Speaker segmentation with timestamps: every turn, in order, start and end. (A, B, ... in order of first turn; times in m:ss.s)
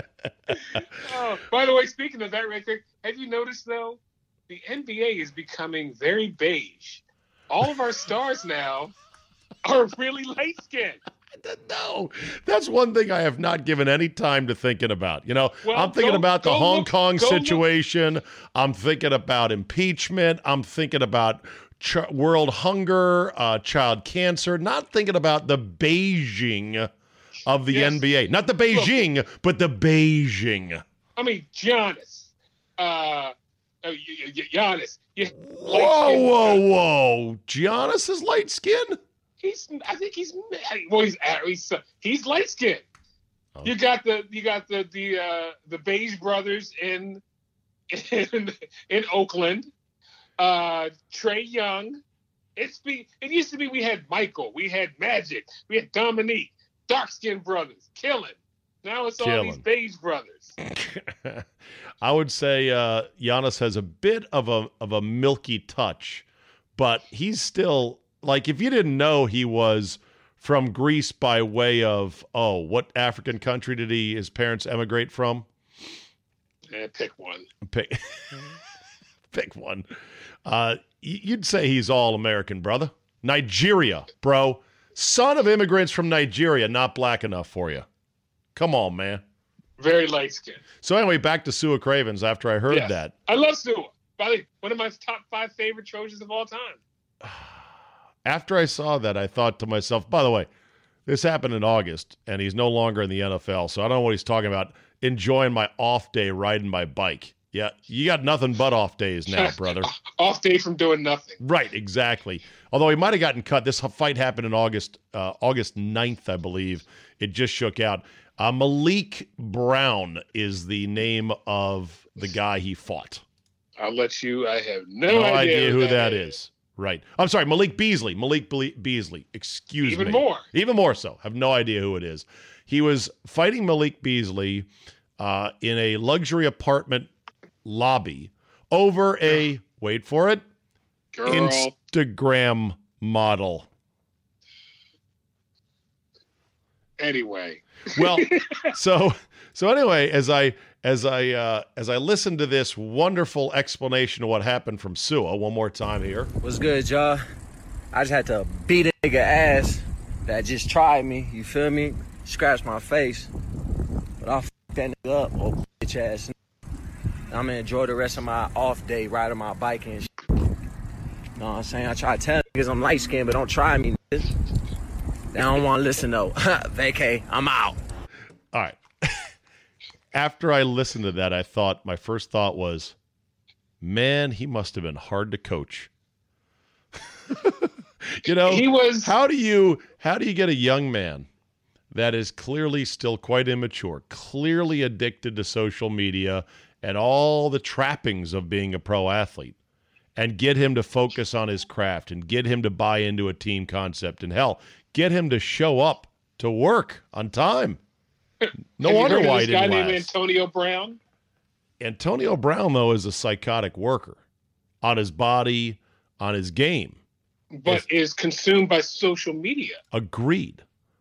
0:00.5-0:00.8 A
0:00.7-0:08.9 B
0:09.6-0:11.0 B
0:11.3-0:26.9 A
0:15.6-0:17.6 B
0:27.5-0:30.8 A
0:27.7-0:28.0 B
0:28.7-0:29.0 B
0:31.2-0:36.6 B
0:35.6-0:39.0 A
0:39.4-0:42.8 B
0:43.6-0:47.2 B
0:47.9-0:49.7 B
0:50.4-0:52.0 B
0:52.6-1:00.5 B
0:59.2-0:59.6 A
1:00.6-1:01.5 A
1:02.0-1:06.3 A
1:06.8-1:15.5 A
1:16.7-1:17.5 B
1:17.6-1:18.6 A
1:19.3-1:19.9 A
1:20.4-1:27.9 A
1:28.6-1:29.2 A
1:29.8-1:30.6 B
1:30.8-1:33.1 A
1:32.7-1:36.8 B
1:37.2-1:37.5 A
1:38.2-1:40.5 A
1:41.1-1:49.9 A
1:49.3-1:51.4 B
1:51.4-2:03.2 A
2:03.8-2:06.3 B
2:05.1-2:17.1 A
2:09.8-2:10.5 B
2:17.6-2:20.4 A
2:21.1-2:21.7 B
2:21.3-2:23.7 A
2:27.0-2:28.7 B
2:27.9-2:36.3 A
2:36.4-2:37.2 C
2:37.9-2:43.3 C
2:44.2-2:46.3 C
2:47.3-2:50.1 C
2:51.4-2:54.3 C
2:55.3-2:57.8 C
2:58.5-2:59.3 A
3:00.1-3:03.0 A
3:03.8-3:05.9 A
3:07.3-3:11.3 A
3:08.4-3:09.1 B
3:11.9-3:19.6 A
3:20.2-3:27.8 A
3:28.4-3:31.0 B
3:28.8-3:30.1 A
3:31.8-3:34.2 A
3:34.8-3:37.0 A
3:37.5-3:39.8 B
3:39.9-3:40.6 A